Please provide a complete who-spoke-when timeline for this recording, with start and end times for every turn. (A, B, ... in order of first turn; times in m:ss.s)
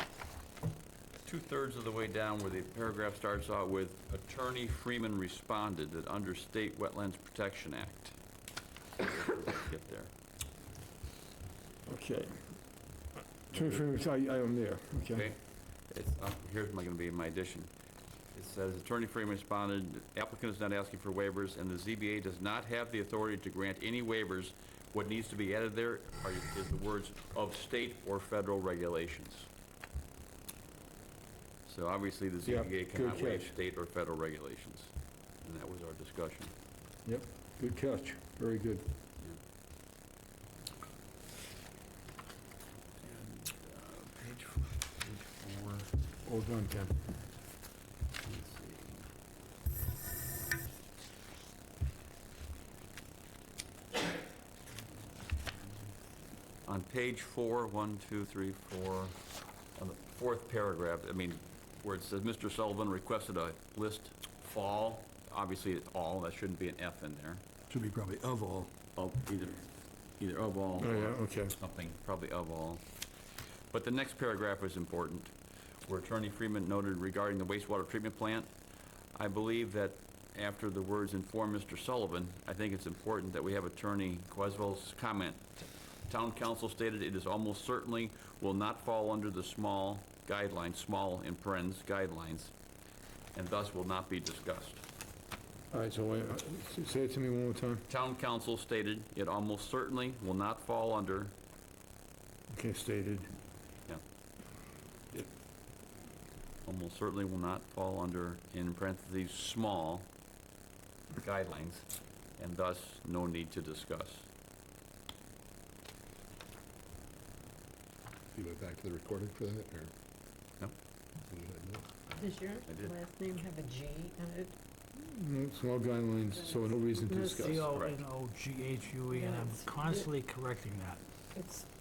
0:01.2-0:08.2 A
0:09.1-0:10.1 A
0:11.9-0:12.6 B
0:13.5-0:15.3 B
0:15.1-0:15.4 A
0:15.9-0:17.7 A
0:18.4-0:29.5 A
0:31.7-0:36.5 A
0:32.4-0:33.5 B
0:37.0-0:38.9 B
0:43.0-0:45.9 A
0:46.2-0:47.0 B
0:48.2-0:49.1 A
0:56.7-0:59.2 A
0:59.8-1:07.4 A
1:07.7-1:08.7 B
1:09.0-1:09.6 A
1:10.2-1:12.8 A
1:10.8-1:11.6 B
1:13.7-1:15.3 A
1:15.9-1:18.5 A
1:19.2-1:32.5 A
1:33.4-1:34.8 A
1:35.7-1:37.9 B
1:37.9-1:41.3 A
1:42.5-1:43.3 B
1:46.6-1:50.1 A
1:51.2-1:51.9 A
1:52.4-1:54.3 A
1:58.3-1:59.9 C
2:01.3-2:02.0 C
2:02.2-2:04.5 D
2:02.7-2:03.0 A
2:05.0-2:07.7 B
2:06.4-2:07.4 D
2:07.3-2:11.0 E
2:07.4-2:08.0 A
2:09.1-2:10.0 D
2:11.3-2:11.7 D